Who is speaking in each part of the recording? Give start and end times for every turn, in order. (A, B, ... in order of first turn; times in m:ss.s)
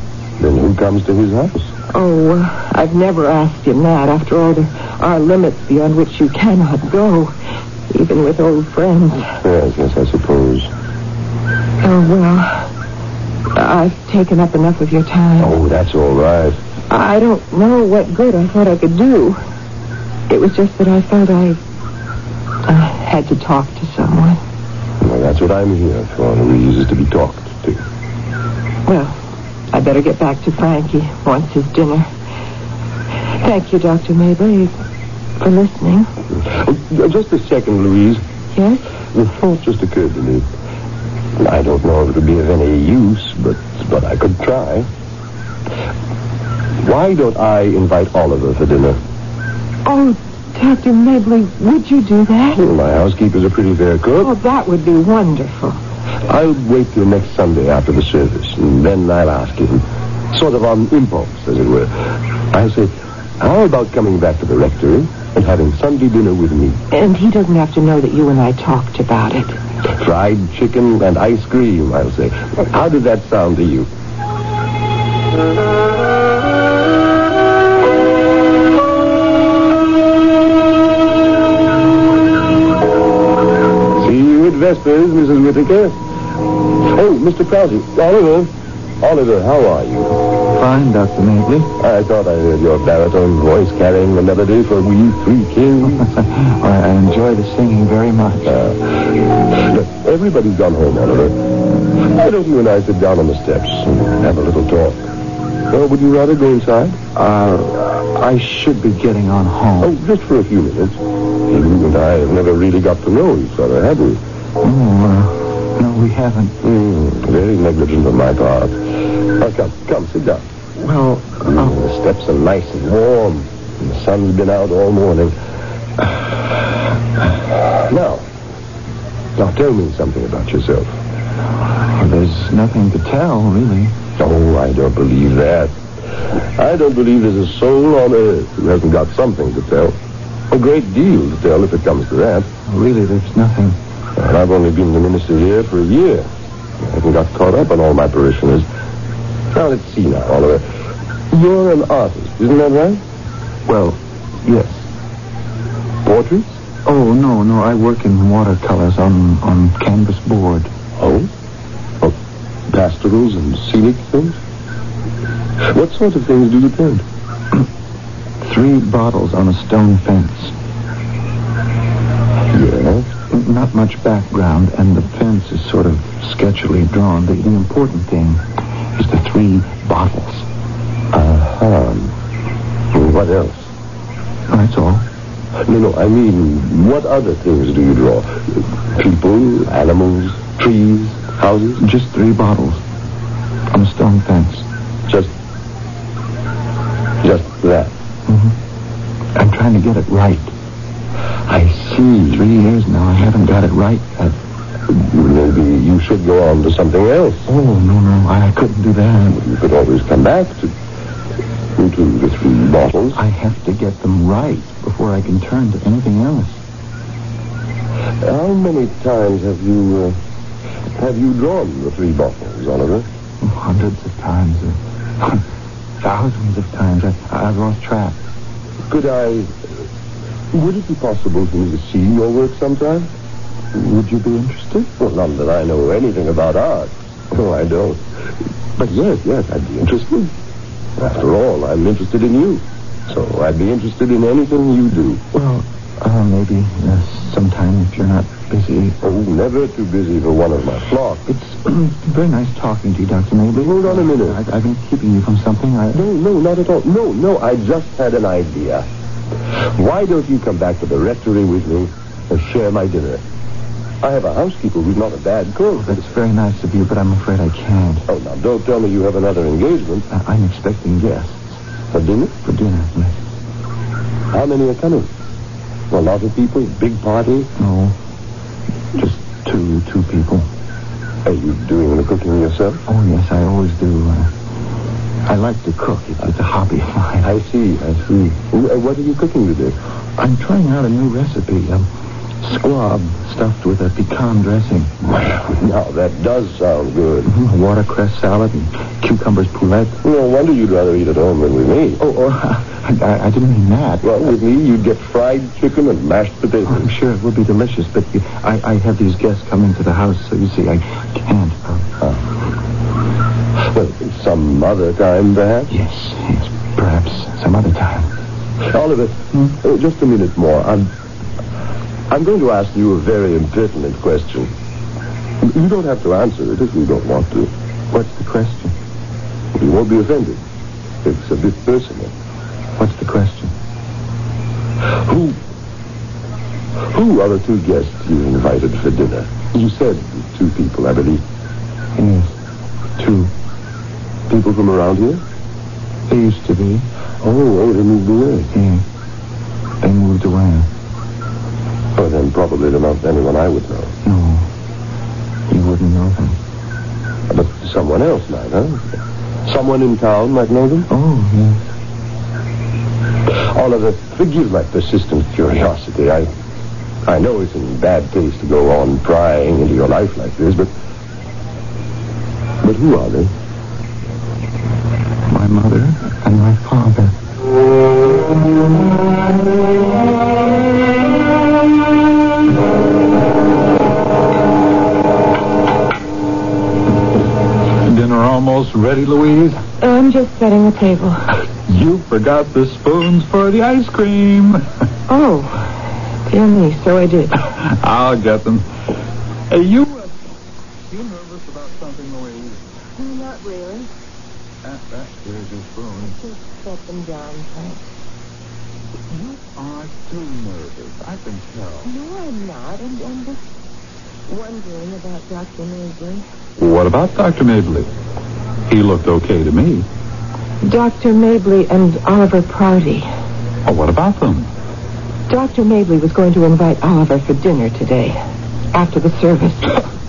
0:00.4-0:01.7 A
0:01.9-0:07.3 B
0:07.9-0:09.3 B
0:09.4-0:10.7 A
0:11.8-0:12.7 B
0:13.5-0:15.6 B
0:15.4-0:16.6 A
0:16.9-0:19.4 B
0:20.3-0:21.6 B
0:22.6-0:24.4 B
0:25.0-0:27.8 A
0:28.9-0:29.2 B
0:29.7-0:32.1 B
0:33.4-0:34.7 B
0:35.4-0:36.1 B
0:36.4-0:38.2 A
0:38.5-0:38.8 B
0:39.1-0:40.4 A
0:41.4-0:44.9 A
0:46.8-0:49.0 A
0:49.8-0:52.6 B
0:52.6-0:54.3 A
0:54.2-0:55.8 B
0:56.3-1:06.8 A
1:06.9-1:09.6 B
1:09.9-1:13.9 A
1:23.9-1:26.0 A
1:26.8-1:30.2 A
1:30.5-1:31.7 C
1:31.8-1:36.0 A
1:35.8-1:38.6 C
1:38.5-1:45.1 A
1:45.7-1:47.0 A
1:47.2-1:49.9 C
1:49.8-1:54.2 A
1:54.6-1:56.5 C
1:56.6-2:00.4 A
2:00.8-2:01.7 C
2:01.4-2:05.3 A
2:07.8-2:08.2 A
2:09.4-2:10.9 A
2:11.9-2:13.9 C
2:14.2-2:15.7 A
2:16.6-2:20.0 A
2:20.5-2:22.5 A
2:22.7-2:23.8 C
2:24.2-2:26.3 A
2:26.8-2:28.6 A
2:29.5-2:30.6 A
2:31.3-2:33.0 A
2:33.7-2:34.8 C
2:36.0-2:36.6 A
2:36.8-2:40.7 C
2:41.0-2:41.3 A
2:42.7-2:44.4 A
2:45.7-2:47.0 A
2:48.4-2:50.5 C
2:52.5-2:53.1 A
2:53.3-2:58.4 C
2:59.0-3:00.4 C
3:01.1-3:02.1 A
3:02.9-3:03.7 A
3:04.5-3:05.0 C
3:05.6-3:11.8 A
3:11.8-3:12.8 C
3:13.7-3:14.6 C
3:17.2-3:17.9 A
3:18.3-3:18.5 C
3:19.3-3:20.5 C
3:21.5-3:22.4 A
3:22.3-3:24.3 C
3:24.9-3:27.5 A
3:27.5-3:29.4 C
3:29.3-3:30.7 A
3:31.8-3:33.2 A
3:33.1-3:36.6 C
3:38.2-3:40.2 A
3:40.9-3:43.1 A
3:43.4-3:45.4 C
3:46.0-3:48.2 C
3:48.9-3:49.5 A
3:50.5-3:53.1 A
3:53.7-3:54.9 C
3:55.0-3:58.0 A
3:58.8-4:00.3 A
4:01.0-4:05.2 A
4:05.3-4:09.0 C
4:09.0-4:11.2 A
4:11.3-4:16.0 C
4:13.6-4:14.4 A
4:15.9-4:18.8 A
4:19.8-4:23.2 A
4:24.0-4:26.0 A
4:25.8-4:28.0 C
4:28.1-4:30.0 A
4:30.1-4:31.6 C
4:31.9-4:32.4 A
4:32.4-4:33.2 C
4:34.3-4:35.1 A
4:35.9-4:37.5 A
4:37.6-4:38.0 C
4:38.9-4:40.4 C
4:41.2-4:42.8 A
4:42.9-4:44.3 C
4:45.2-4:47.3 C
4:47.2-4:49.8 A
4:50.2-4:51.9 C
4:52.4-4:54.9 C
4:55.1-4:57.3 A
4:57.3-5:00.0 C
5:00.0-5:02.0 A
5:02.0-5:04.1 C
5:04.0-5:06.9 A
5:06.7-5:11.9 C
5:13.6-5:15.8 A
5:15.7-5:18.1 C
5:18.7-5:20.9 A
5:22.1-5:24.5 A
5:25.4-5:27.5 A
5:27.9-5:28.7 C
5:29.5-5:30.4 A
5:31.0-5:32.1 A
5:32.8-5:33.5 C
5:35.0-5:35.4 A
5:36.9-5:41.2 A
5:42.0-5:42.3 C
5:43.0-5:43.3 C
5:44.3-5:45.2 A
5:46.1-5:46.8 C
5:47.2-5:48.5 A
5:48.5-5:48.8 C
5:49.8-5:50.7 C
5:52.0-5:53.9 A
5:54.0-5:54.5 C
5:55.5-5:56.4 C
5:57.3-5:58.9 A
5:59.4-6:00.9 A
6:00.9-6:01.6 C
6:03.3-6:06.3 A
6:07.0-6:10.7 A
6:12.6-6:13.3 A
6:15.3-6:17.1 C
6:27.8-6:29.6 D
6:29.8-6:31.3 B
6:31.7-6:34.6 D
6:35.1-6:35.6 B
6:36.3-6:37.4 B
6:37.6-6:38.6 D
6:39.5-6:40.1 D
6:40.9-6:42.6 D
6:43.0-6:43.9 B
6:44.6-6:46.1 D
6:46.0-6:47.8 B
6:49.1-6:51.9 D
6:51.8-6:53.4 B
6:54.3-6:56.2 B
6:56.6-6:57.9 D
6:58.7-6:59.8 D
7:00.6-7:03.1 B
7:03.6-7:04.5 D
7:05.3-7:08.2 B
7:08.7-7:09.8 B